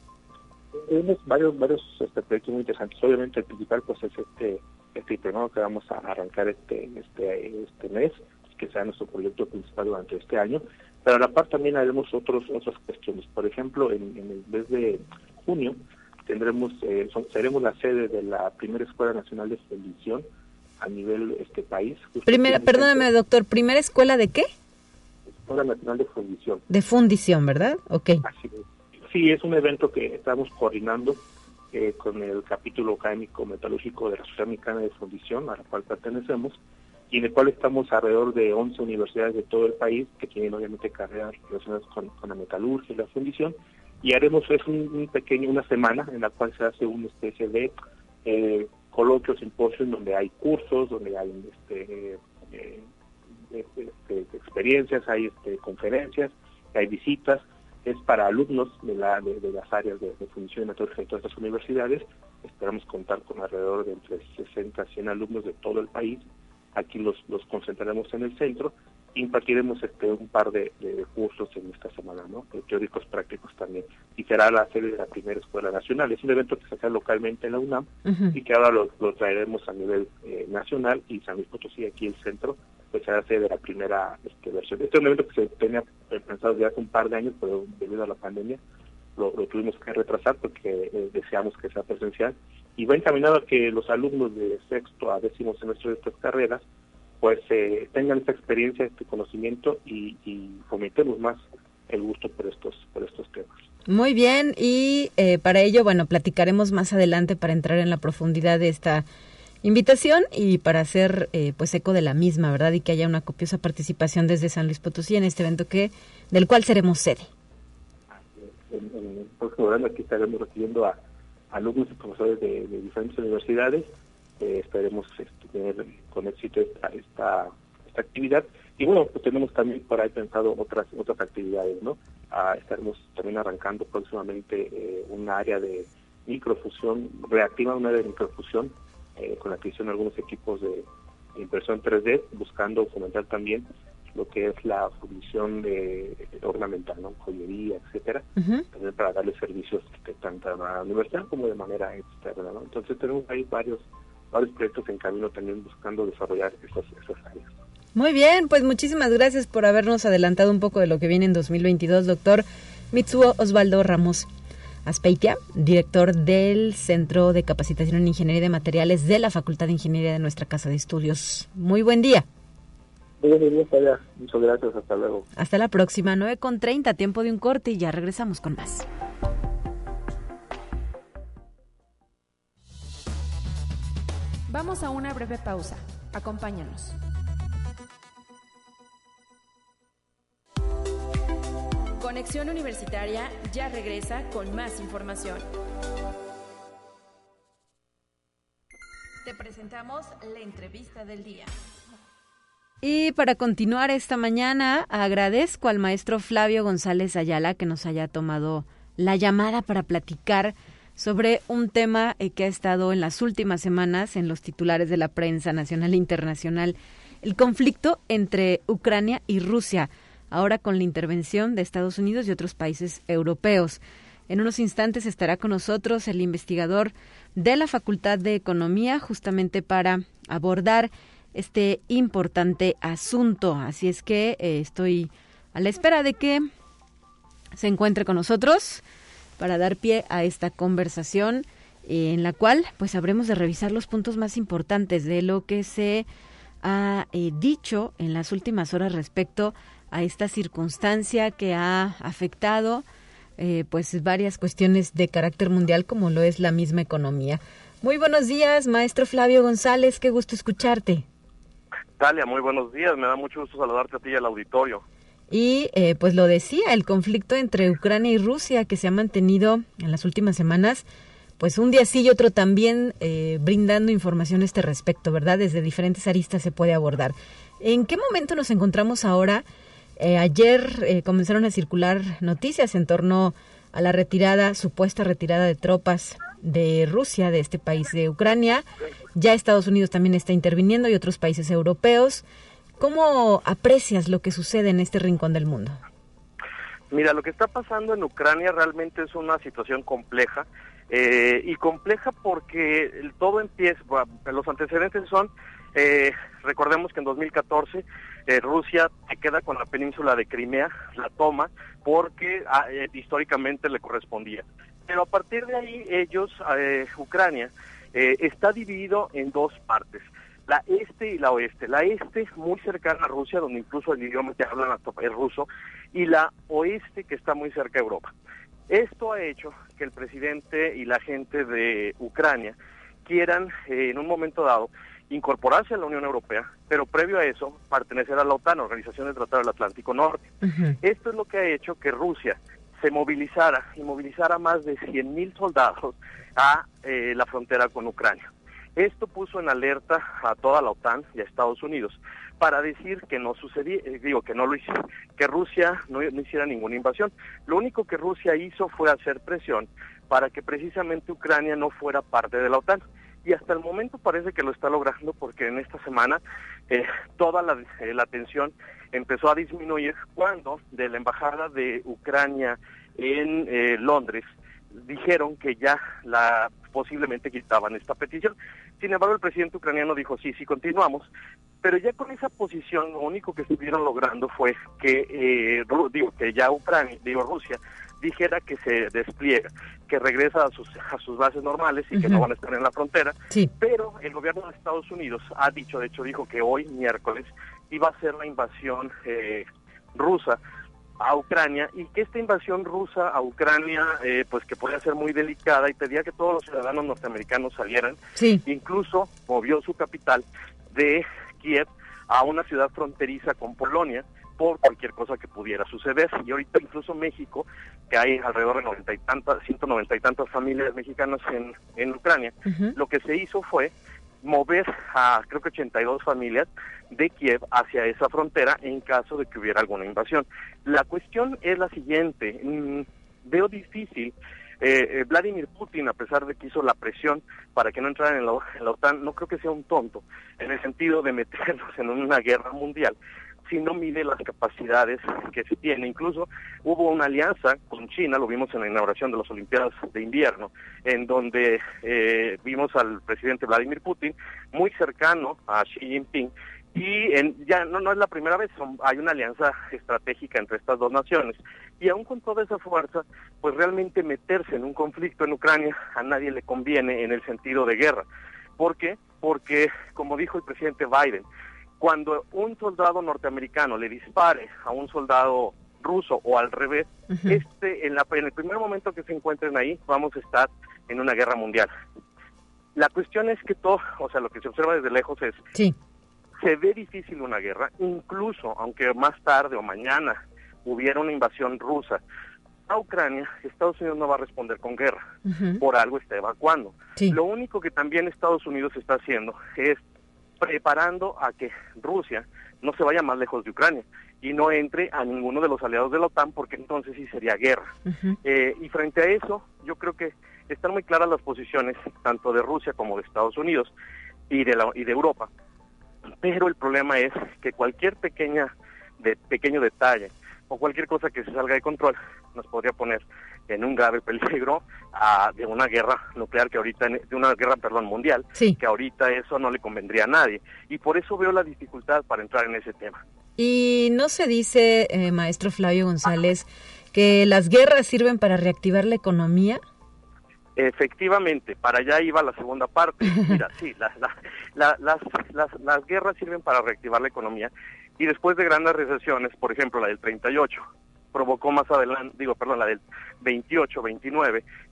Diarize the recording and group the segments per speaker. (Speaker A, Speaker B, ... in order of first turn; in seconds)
Speaker A: 0.7-20.2, 20.8-23.1, 25.3-26.6, 28.2-47.7, 48.2-52.9, 53.5-88.6, 89.2-96.6, 97.2-103.6, 118.2-121.0, 121.5-157.5, 173.2-175.2
Speaker B: 22.3-24.5, 26.7-28.2, 78.0-78.3, 103.9-109.0, 109.6-117.3, 148.4-148.6, 157.9-164.3, 164.8-172.2, 175.3-178.8, 202.8-236.4, 237.6-238.8, 239.4-246.1, 246.6-252.8, 253.4-261.0, 265.3-270.8, 271.4-279.4, 280.0-292.2, 292.8-295.8, 340.4-340.7, 391.9-392.2, 408.2-408.4, 422.5-422.7, 495.2-495.6, 507.9-508.1, 533.4-539.6
Speaker C: 184.5-187.0, 192.0-195.5, 199.2-201.5
Speaker D: 262.0-264.8, 296.9-328.1, 328.7-340.3, 340.8-381.1, 381.6-400.4, 401.0-468.0, 468.6-471.2, 471.8-481.7, 482.8-485.4, 486.4-492.0, 492.7-495.0, 495.6-499.8, 500.4-507.7, 508.2-513.7, 514.3-515.3, 516.2-533.0, 540.6-554.4